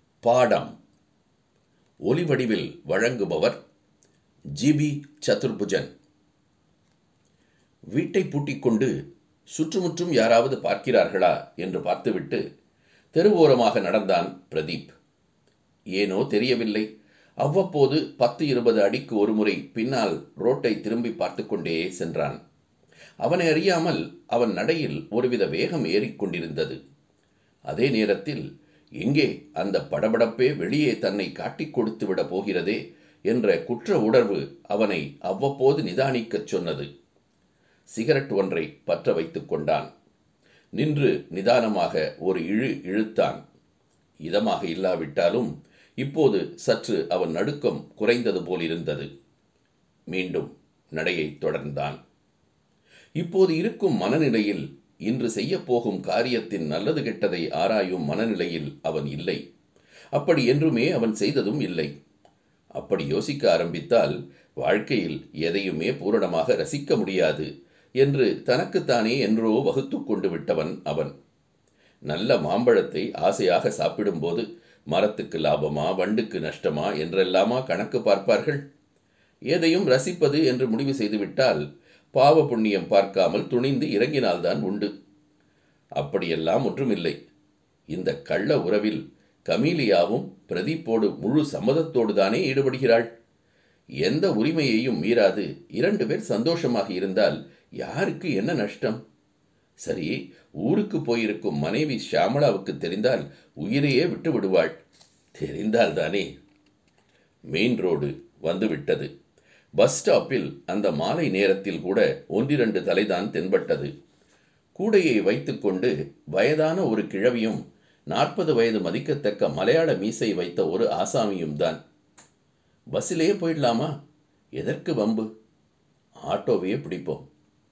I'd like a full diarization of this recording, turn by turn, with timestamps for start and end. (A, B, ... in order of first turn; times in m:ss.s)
0:00.2-0:00.7 A
0:02.0-0:03.6 A
0:04.6-0:05.9 A
0:07.9-0:08.9 A
0:09.5-0:12.4 A
0:13.1-0:14.9 A
0:16.0-0:16.8 A
0:17.4-0:22.4 A
0:23.2-0:26.8 A
0:27.7-0:28.4 A
0:29.0-0:36.9 A
0:37.9-0:39.9 A
0:40.8-0:43.4 A
0:44.2-0:45.5 A
0:46.0-0:49.1 A
0:50.1-0:52.0 A
0:53.2-0:59.4 A
1:00.1-1:01.9 A
1:02.8-1:07.5 A
1:08.0-1:11.1 A
1:12.1-1:18.6 A
1:19.5-1:24.9 A
1:26.0-1:27.2 A
1:27.9-1:33.1 A
1:34.0-1:39.0 A
1:39.8-1:44.8 A
1:45.3-1:46.3 A
1:47.5-1:49.1 A
1:49.8-1:53.9 A
1:54.8-2:01.8 A
2:02.9-2:03.9 A
2:04.6-2:05.2 A
2:06.2-2:07.2 A